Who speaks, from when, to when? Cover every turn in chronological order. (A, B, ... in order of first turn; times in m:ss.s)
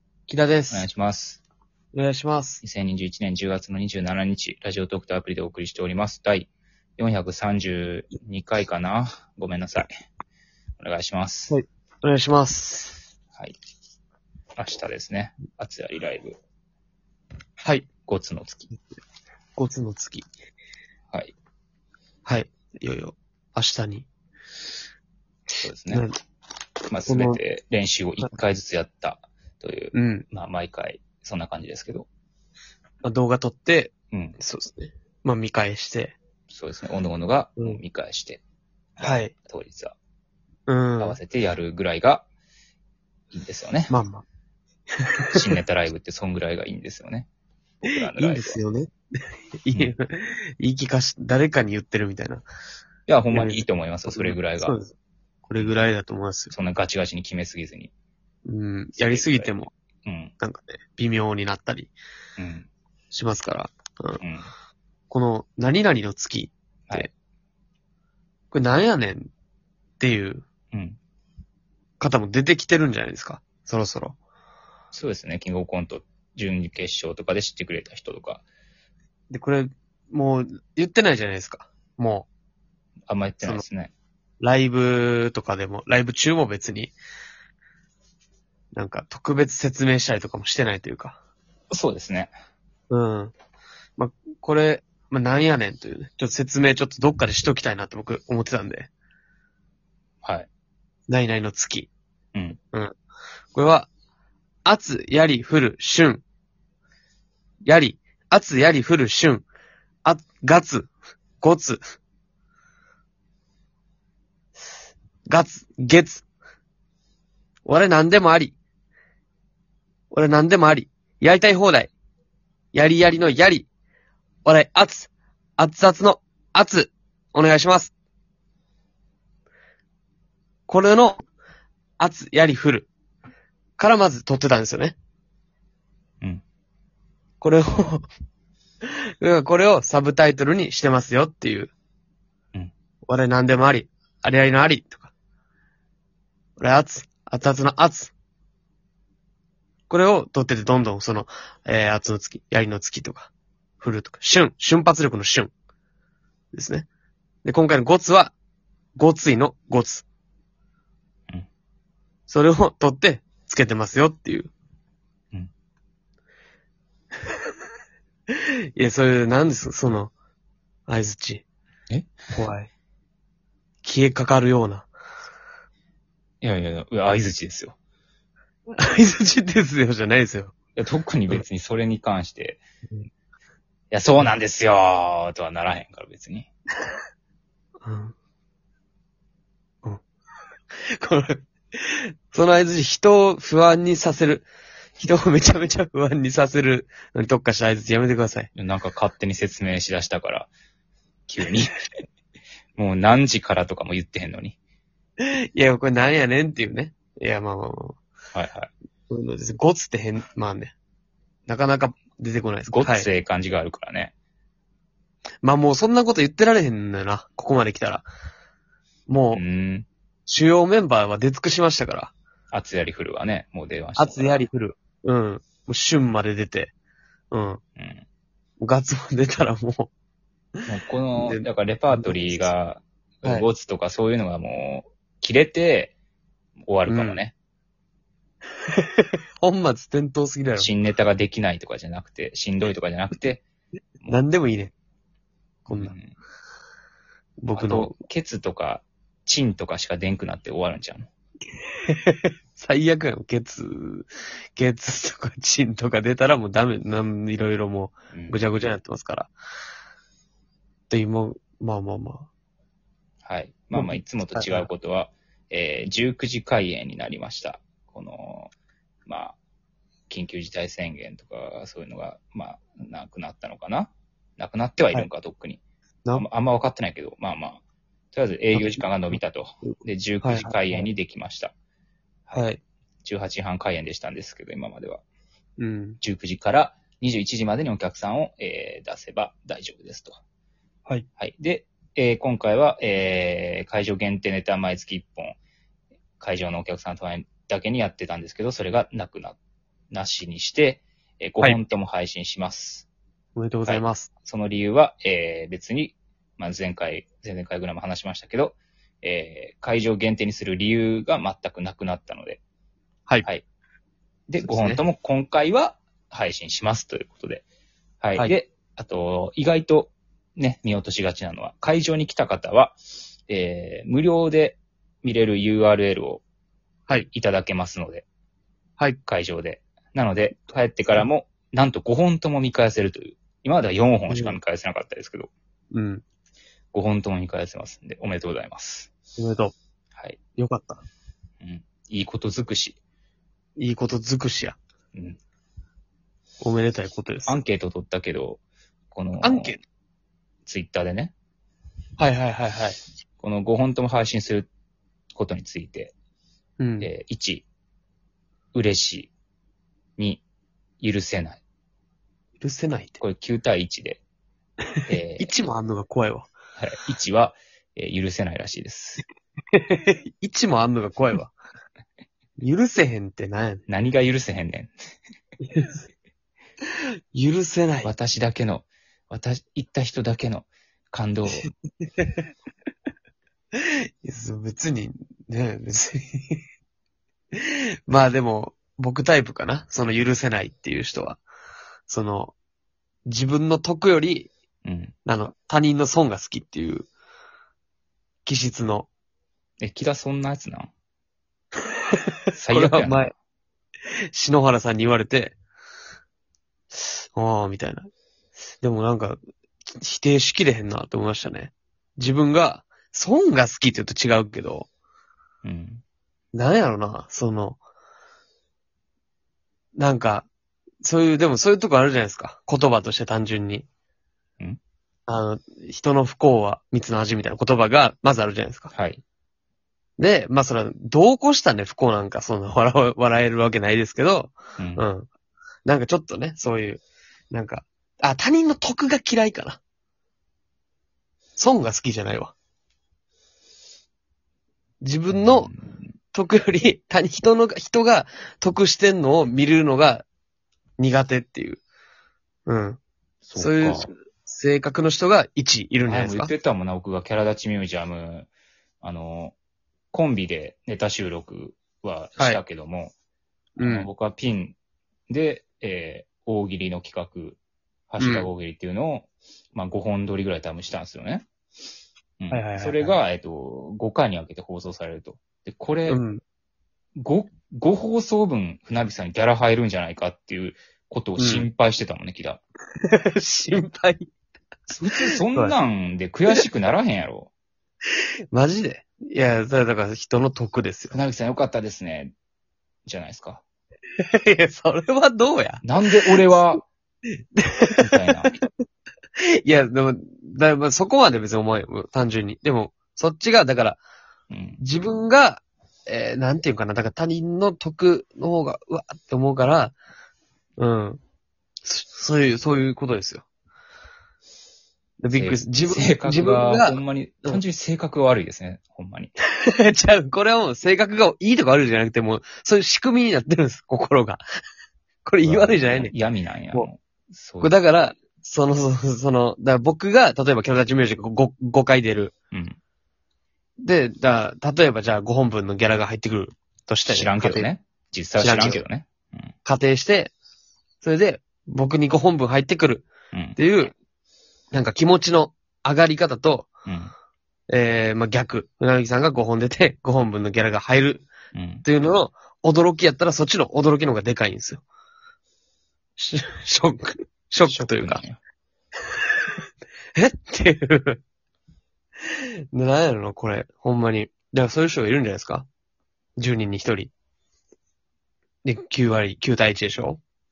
0:00.3-0:00.9 A
0:00.7-0:01.4 B
0:01.9-0:02.6 A
0:02.6-0:09.9 B
0:10.8-0:11.5 B
0:11.5-0:13.0 A
0:14.6-0:16.4 B
0:17.6-0:17.9 A
0:18.1-0:18.7 B
0:19.6-0:20.3 A
0:22.2-0:24.0 A
0:25.6-0:26.0 B
0:25.9-0:26.1 A
0:26.9-0:32.0 B
0:27.0-0:27.4 A
0:29.9-0:30.2 A
0:33.0-0:36.2 A
0:36.5-0:38.4 B
0:39.0-0:39.3 A
0:39.5-0:39.9 B
0:40.7-0:41.2 A
0:41.0-0:42.2 B
0:43.3-0:43.9 B
0:43.9-0:44.2 A
0:45.3-0:47.3 B
0:47.8-0:52.4 A
0:47.9-0:48.6 B
0:53.1-0:54.7 B
0:53.3-0:54.9 A
0:55.4-0:56.5 A
0:56.5-0:57.9 B
0:58.4-0:59.7 A
0:59.0-0:59.5 B
1:00.0-1:00.3 B
1:00.4-1:01.9 A
1:02.4-1:02.7 B
1:03.1-1:04.2 A
1:04.2-1:04.5 B
1:05.1-1:07.1 A
1:08.5-1:09.3 A
1:10.0-1:10.4 A
1:10.7-1:11.0 B
1:12.0-1:14.2 A
1:14.9-1:18.4 B
1:19.3-1:22.3 A
1:23.1-1:23.9 B
1:24.4-1:26.9 A
1:28.7-1:31.2 A
1:31.7-1:32.3 B
1:32.9-1:33.3 A
1:34.0-1:38.9 A
1:40.2-1:40.5 B
1:41.1-1:41.9 A
1:43.5-1:43.9 A
1:44.6-1:46.2 A
1:47.6-1:49.5 A
1:50.0-1:51.8 A
1:55.2-1:56.2 A
1:57.6-1:58.5 A
2:00.1-2:01.9 A
2:02.7-2:03.7 A
2:04.4-2:07.9 A
2:10.7-2:11.2 A
2:12.0-2:12.9 A
2:13.8-2:14.9 A
2:17.4-2:18.0 A
2:19.2-2:21.7 A
2:23.1-2:25.1 A
2:26.6-2:28.1 A
2:29.9-2:35.5 A
2:36.5-2:36.9 A
2:37.4-2:38.3 A
2:39.0-2:40.0 A
2:42.3-2:44.5 A
2:48.8-2:50.1 A
2:50.9-2:51.4 A
2:52.3-2:52.7 A
2:53.8-2:54.9 A
2:56.4-2:57.8 B
2:58.8-3:00.5 A
3:00.8-3:02.6 B
3:03.9-3:06.5 B
3:07.8-3:08.1 A
3:10.9-3:14.5 A
3:15.0-3:18.5 A
3:18.5-3:20.5 B
3:21.3-3:21.8 B
3:22.8-3:24.6 B
3:25.2-3:28.0 A
3:28.3-3:28.7 B
3:29.1-3:30.7 A
3:31.5-3:33.1 A
3:32.7-3:34.1 B
3:35.4-3:38.0 A
3:39.1-3:39.4 A
3:39.3-3:39.9 B
3:40.2-3:42.1 A
3:42.5-3:44.4 B
3:44.0-3:46.7 A
3:47.3-3:47.6 A
3:47.8-3:48.0 B
3:48.6-3:49.9 A
3:50.7-3:55.9 B
3:51.2-3:52.5 A
3:56.6-3:57.3 B
3:56.9-3:57.2 A
3:58.7-4:00.7 A
4:00.6-4:03.4 B
4:04.1-4:04.7 A
4:05.7-4:05.9 A
4:05.7-4:06.1 B
4:07.4-4:08.0 A
4:07.5-4:11.1 B
4:11.8-4:19.3 A
4:18.1-4:18.4 B
4:20.9-4:22.3 A
4:23.2-4:28.5 B
4:23.7-4:24.7 A
4:29.0-4:29.4 B
4:30.1-4:35.6 B
4:36.1-4:37.6 B
4:38.1-4:41.5 B
4:38.5-4:38.8 A
4:39.6-4:40.9 A
4:42.3-4:42.6 A
4:43.0-4:45.0 B
4:45.6-4:46.0 A
4:46.0-4:50.2 B
4:51.2-4:55.4 B
4:56.2-4:59.4 B
4:59.9-5:02.9 B
5:03.4-5:04.1 A
5:03.6-5:12.4 B
5:14.3-5:17.4 B
5:14.4-5:14.8 A
5:18.0-5:26.2 B
5:27.1-5:28.0 B
5:29.1-5:35.3 B
5:34.1-5:34.4 A
5:35.7-5:36.0 A
5:36.7-5:38.9 B
5:39.2-5:39.5 A
5:40.4-5:40.8 A
5:41.4-5:42.8 B
5:43.6-5:44.6 A
5:44.9-5:45.2 B
5:46.4-5:47.4 A
5:47.3-5:48.4 B
5:48.9-5:49.5 B
5:49.2-5:49.6 A
5:50.4-5:51.1 B
5:52.0-5:52.8 A
5:53.2-5:54.5 B
5:55.1-5:55.9 B
5:56.6-5:56.9 A
5:56.8-5:57.4 B
5:58.5-5:59.1 B
6:00.0-6:00.2 B
6:00.8-6:01.4 B
6:02.4-6:03.0 A
6:03.0-6:04.0 B
6:04.9-6:05.3 B
6:05.2-6:06.3 A
6:06.6-6:09.0 B
6:09.5-6:11.3 A
6:12.4-6:13.6 A
6:13.7-6:14.7 B
6:15.4-6:15.8 A
6:17.1-6:17.9 A
6:17.8-6:21.5 B
6:21.3-6:22.2 A
6:24.0-6:26.4 A
6:27.3-6:31.2 A
6:31.9-6:32.3 A
6:33.0-6:34.3 A
6:34.6-6:34.9 B
6:35.0-6:36.9 A
6:38.2-6:38.9 A
6:39.6-6:40.7 B
6:42.3-6:43.1 B
6:42.5-6:43.1 A
6:44.1-6:45.3 A
6:47.1-6:47.9 A
6:48.6-6:54.7 A
6:55.4-6:55.8 B
6:56.3-6:57.6 A
6:59.8-7:00.3 A
7:00.8-7:03.6 A
7:05.1-7:08.7 A
7:08.7-7:09.0 B
7:10.0-7:15.1 A
7:14.6-7:14.8 B
7:15.6-7:19.6 A
7:21.4-7:22.3 A
7:24.8-7:25.5 A
7:25.1-7:25.9 B
7:26.1-7:30.0 A
7:30.8-7:31.6 A
7:32.5-7:32.8 A
7:33.2-7:33.9 B
7:33.4-7:36.3 A
7:35.8-7:38.3 B
7:38.8-7:39.3 B
7:39.9-7:42.9 B
7:43.6-7:43.9 A
7:43.6-7:44.6 B
7:45.1-7:47.4 B
7:47.9-7:51.2 B
7:48.0-7:48.3 A
7:52.2-7:56.0 B
7:52.3-7:53.0 A
7:55.9-7:56.2 A
7:57.0-8:02.4 B
8:01.2-8:01.5 A
8:02.8-8:04.1 A
8:04.7-8:07.3 B
8:08.3-8:10.9 A
8:10.9-8:12.1 B
8:12.8-8:13.4 B
8:14.0-8:16.2 A
8:15.6-8:16.6 B
8:17.4-8:18.5 A
8:17.8-8:18.3 B
8:19.2-8:23.8 A
8:24.3-8:24.6 B
8:24.6-8:29.7 A
8:30.6-8:31.0 A
8:31.6-8:33.2 A
8:35.0-8:37.4 A
8:35.1-8:39.1 B
8:39.4-8:44.2 A
8:45.0-8:45.9 A
8:45.2-8:47.5 B
8:47.4-8:52.1 A
8:52.3-8:52.6 B
8:53.6-8:57.5 A
8:56.9-8:59.3 B
8:58.2-8:58.6 A
8:59.4-9:00.1 A
9:00.8-9:03.7 A
9:04.5-9:06.5 A
9:06.6-9:06.9 B
9:07.5-9:11.1 A
9:11.3-9:11.6 B
9:11.6-9:14.6 A
9:16.0-9:18.0 A
9:17.4-9:18.2 B
9:20.0-9:21.0 A
9:22.5-9:25.5 A
9:26.2-9:26.9 A
9:28.4-9:30.0 A